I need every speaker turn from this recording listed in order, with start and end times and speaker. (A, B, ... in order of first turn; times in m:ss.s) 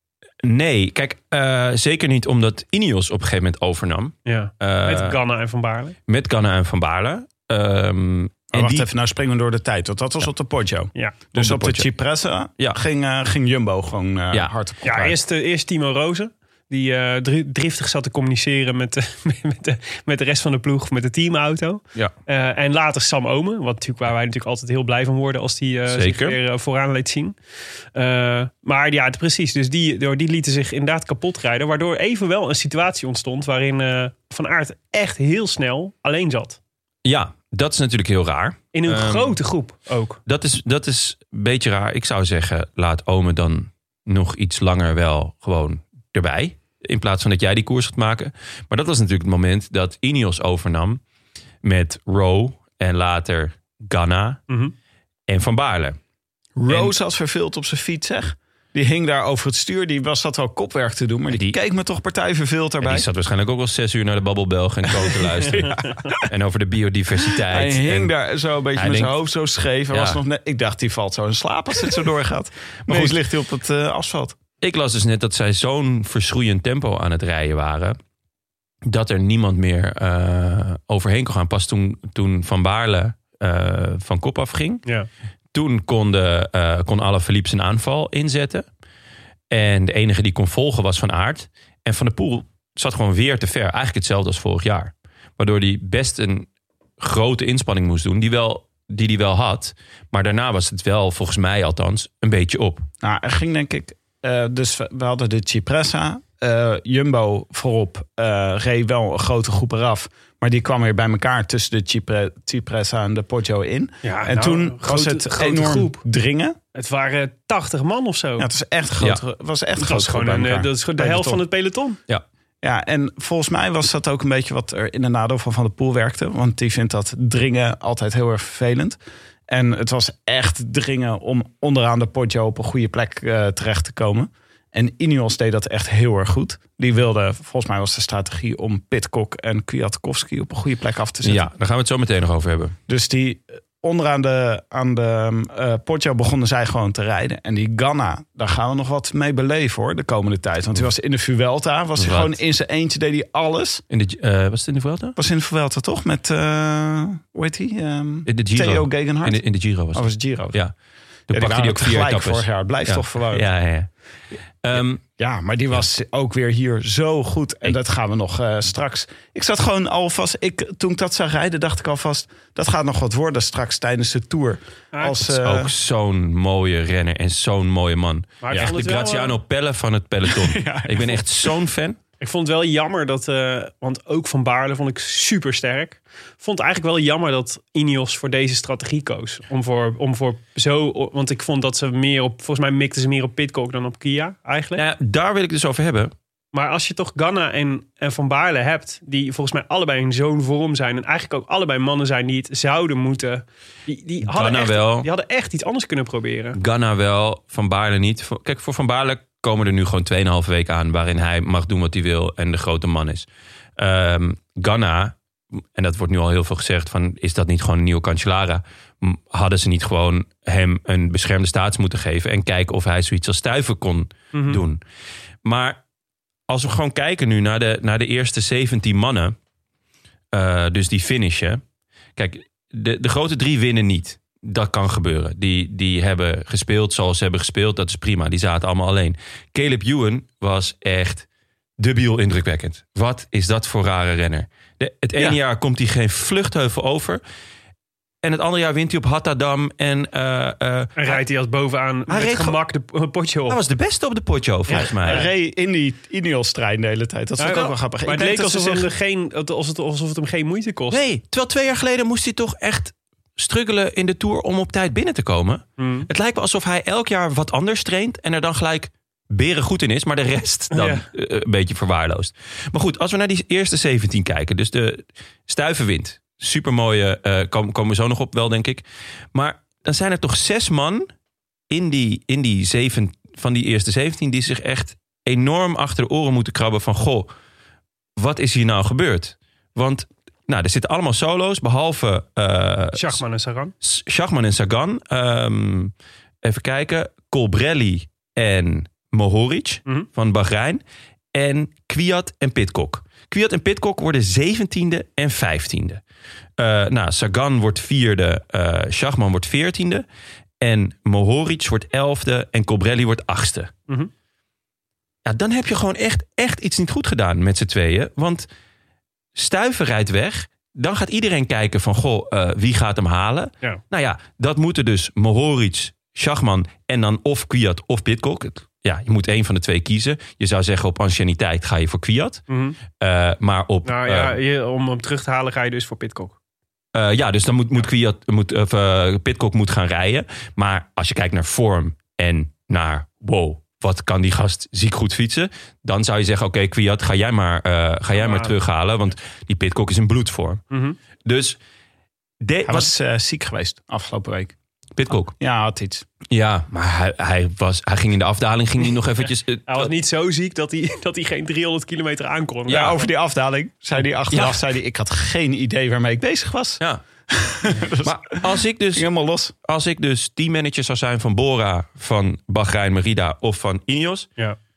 0:00.4-0:05.2 A
0:04.3-0:06.0 B
0:06.1-0:08.9 A
0:08.5-0:15.2 C
0:11.4-0:11.9 A
0:14.8-0:27.4 B
0:25.9-0:26.4 A
0:28.0-0:36.6 B
0:37.0-0:39.4 A
0:38.7-0:40.2 B
0:40.3-0:51.0 A
0:51.6-0:54.4 A
0:54.5-0:54.7 B
0:55.3-0:56.0 A
0:56.6-1:03.1 C
1:02.8-1:08.1 A
1:05.5-1:06.2 B
1:07.4-1:14.4 C
1:08.8-1:09.1 A
1:09.9-1:10.2 A
1:12.9-1:13.2 A
1:14.6-1:18.0 A
1:18.9-1:24.8 A
1:25.5-1:28.7 A
1:29.5-1:36.5 A
1:37.0-1:42.9 A
1:43.0-1:56.6 C
1:54.0-1:56.0 B
1:56.8-1:58.5 B
1:58.4-2:01.4 C
1:59.8-2:02.0 B
2:02.6-2:21.5 C
2:21.2-2:22.8 A
2:22.9-2:33.8 C
2:32.0-2:32.4 A
2:33.9-2:35.2 A
2:35.2-2:40.6 C
2:38.3-2:40.7 A
2:41.3-2:43.9 A
2:41.3-2:43.4 C
2:44.6-2:45.0 A
2:44.7-2:55.7 C
2:54.9-2:55.2 B
2:55.2-3:02.0 A
2:58.4-2:59.4 B
3:00.3-3:01.5 C
3:02.2-3:14.8 B
3:14.8-3:16.1 A
3:16.5-3:26.6 B
3:24.3-3:25.1 A
3:26.6-3:33.3 A
3:33.8-3:35.2 A
3:35.8-3:44.8 A
3:44.3-3:44.6 B
3:45.4-3:45.8 A
3:46.5-3:49.4 A
3:50.3-3:51.6 A
3:52.2-4:01.2 A
4:01.8-4:07.2 A
4:08.2-4:11.2 A
4:11.0-4:13.6 B
4:12.1-4:12.6 A
4:13.5-4:15.2 A
4:14.7-4:18.9 C
4:14.8-4:15.3 B
4:17.4-4:21.0 B
4:20.9-4:41.1 A
4:25.8-4:26.1 B
4:30.7-4:31.0 B
4:41.7-4:47.3 A
4:48.2-4:53.2 A
4:52.9-4:53.7 B
4:53.8-4:55.9 A
4:56.4-5:00.8 A
5:01.3-5:06.0 A
5:06.6-5:10.0 A
5:10.6-5:13.7 A
5:15.3-5:18.5 A
5:19.4-5:32.4 A
5:32.5-5:32.8 B
5:33.0-5:34.4 A
5:33.8-5:36.4 B
5:36.9-5:50.6 A
5:48.2-5:48.5 B
5:50.7-5:51.0 B
5:51.2-5:51.6 A
5:52.4-5:52.9 A
5:52.6-5:54.6 C
5:55.0-5:55.3 A
5:55.4-5:56.1 C
5:56.3-5:59.9 A
5:59.7-6:03.1 B
6:02.7-6:09.5 C
6:04.3-6:04.6 A
6:08.0-6:09.1 A
6:09.6-6:14.3 A